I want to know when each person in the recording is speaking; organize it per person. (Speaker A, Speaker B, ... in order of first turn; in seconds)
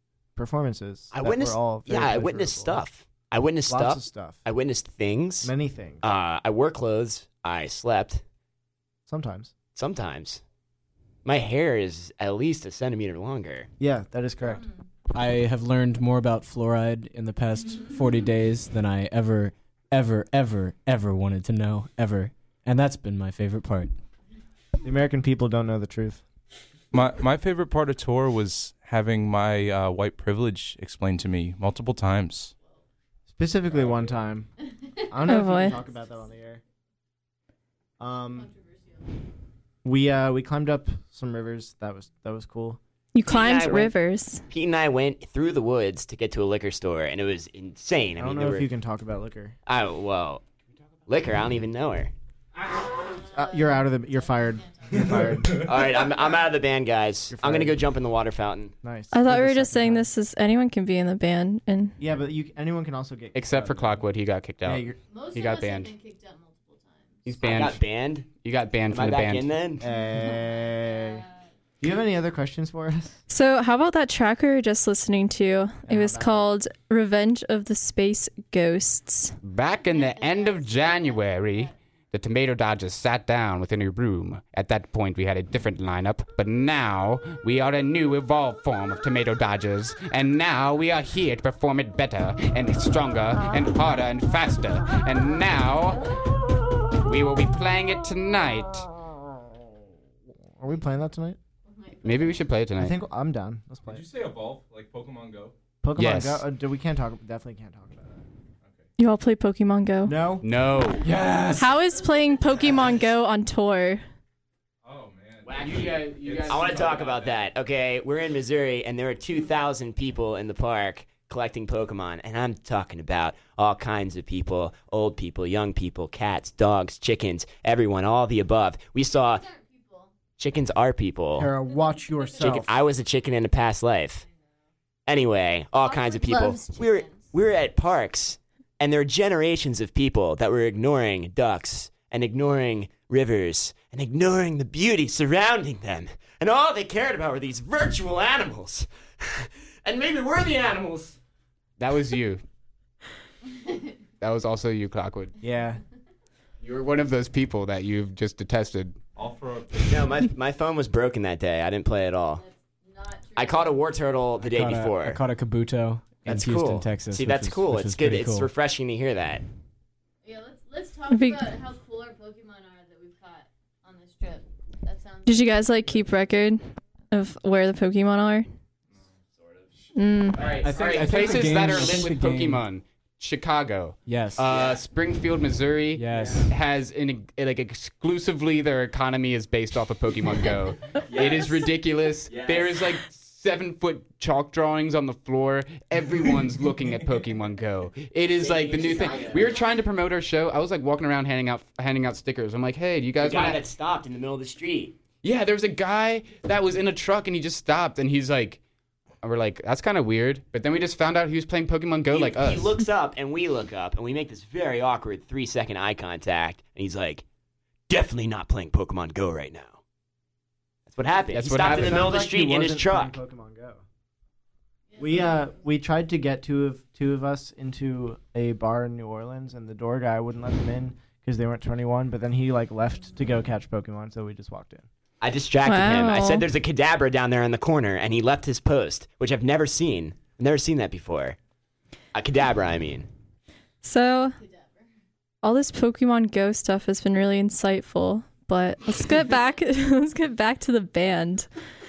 Speaker A: 0.3-2.8, 3.7-4.4, 5.4-6.0, 9.1-9.5, 13.8-14.6, 24.8-26.2, 33.3-34.5, 35.0-36.6, 38.0-38.5, 39.8-42.8, 48.1-49.5, 53.3-55.7, 57.3-57.8, 58.8-60.1, 62.0-64.0, 64.6-65.0, 69.8-71.2, 71.8-73.2, 75.8-76.5, 100.6-101.4, 102.8-104.0, 105.8-108.2, 110.0-110.4, 131.3-132.8, 155.4-155.8, 221.6-223.8, 225.0-234.9
Speaker B: 1.1-8.2, 9.7-10.4, 11.2-13.7, 43.3-43.9, 44.5-48.7, 49.6-50.4, 51.1-52.1, 55.5-58.7, 67.4-68.3, 68.9-69.8, 115.4-129.4, 130.4-131.5, 132.4-134.2, 135.1-151.2, 159.8-162.4, 163.3-165.2, 166.2-169.4, 179.4-179.7, 180.3-181.9, 184.5-184.8, 186.1-186.4, 191.1-191.6, 192.3-192.8, 198.3-199.6, 203.2-204.9, 212.1-217.2, 217.9-219.8, 220.9-223.2, 235.2-241.4, 242.1-243.1
Speaker C: 15.1-23.9, 111.0-111.7, 164.4-168.5, 180.6-182.6, 184.1-184.5, 185.9-186.5
Speaker D: 26.9-32.5, 33.7-34.2, 55.0-55.6, 103.8-105.5, 114.8-117.4, 159.1-160.2
Speaker E: 35.2-35.8, 43.1-44.4, 59.1-62.0, 73.3-79.3, 109.0-110.2, 111.5-114.0, 171.1-171.4, 175.2-178.4, 179.9-180.4, 235.6-236.5, 243.8-244.3, 245.4-251.5
Speaker F: 35.3-36.0, 38.3-39.1, 53.1-55.1, 65.1-67.3, 69.9-71.3, 79.7-81.7, 101.7-102.5, 129.1-130.1, 135.8-137.3, 162.3-163.9, 170.2-176.1, 198.9-199.5, 224.9-225.5, 244.4-244.8
Speaker G: 63.3-65.9, 67.2-69.5, 79.4-96.2, 97.0-98.9, 102.0-103.0, 106.0-106.4, 110.4-111.1, 115.6-117.0, 151.8-152.4, 154.2-155.3, 156.6-159.0, 180.4-203.6, 205.2-208.6, 209.2-212.8, 221.3-222.2